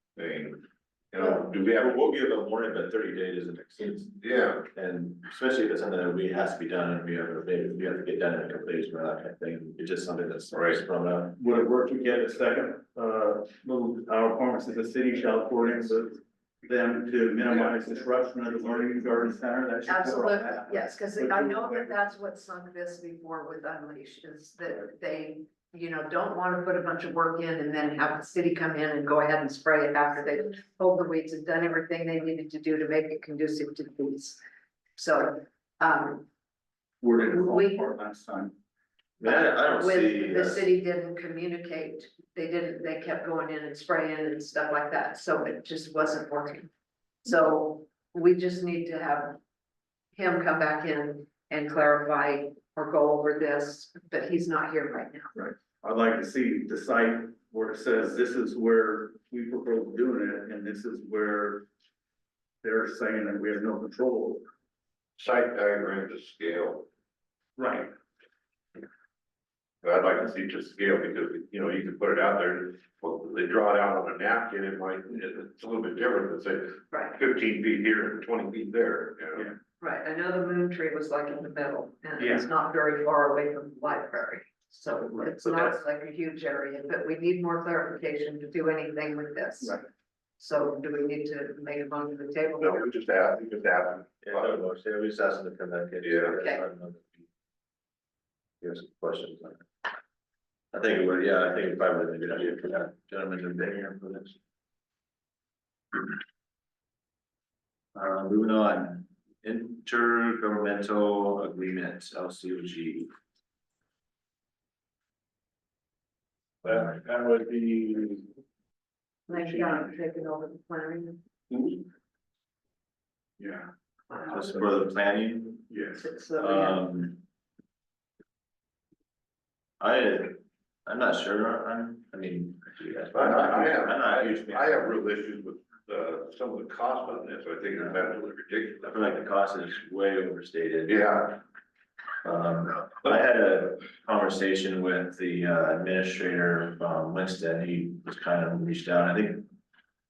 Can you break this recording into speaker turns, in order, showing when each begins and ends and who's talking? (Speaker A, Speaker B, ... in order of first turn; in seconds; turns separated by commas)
Speaker A: 0.1-2.0, Speaker B: 1.2-4.1, Speaker A: 4.2-4.7, Speaker B: 4.7-11.3, Speaker A: 10.5-10.8, Speaker C: 11.3-21.9, Speaker D: 19.9-34.4, Speaker D: 35.0-36.3, Speaker C: 37.0-38.5, Speaker D: 37.2-37.9, Speaker B: 39.2-40.7, Speaker D: 39.2-46.7, Speaker D: 47.2-49.4, Speaker D: 50.1-55.3, Speaker C: 55.3-61.7, Speaker C: 62.6-64.4, Speaker A: 65.2-66.9, Speaker C: 67.6-67.9, Speaker A: 69.8-79.5, Speaker D: 76.9-77.2, Speaker D: 79.8-89.8, Speaker C: 82.2-82.5, Speaker C: 85.1-85.8, Speaker C: 89.6-89.9, Speaker D: 90.4-92.9, Speaker A: 92.6-94.6, Speaker B: 94.2-97.2, Speaker A: 96.0-96.3, Speaker D: 96.4-96.6, Speaker B: 98.6-99.7, Speaker B: 100.7-104.4, Speaker B: 107.9-113.1, Speaker C: 116.6-118.2, Speaker D: 119.3-121.2, Speaker C: 119.4-119.9, Speaker C: 121.5-121.8, Speaker C: 123.4-124.4, Speaker B: 124.3-125.8, Speaker C: 125.7-126.0, Speaker D: 125.9-126.8, Speaker B: 126.4-127.2, Speaker B: 129.8-134.9, Speaker A: 133.1-139.0, Speaker B: 138.8-141.0, Speaker A: 140.9-141.4, Speaker B: 142.2-149.5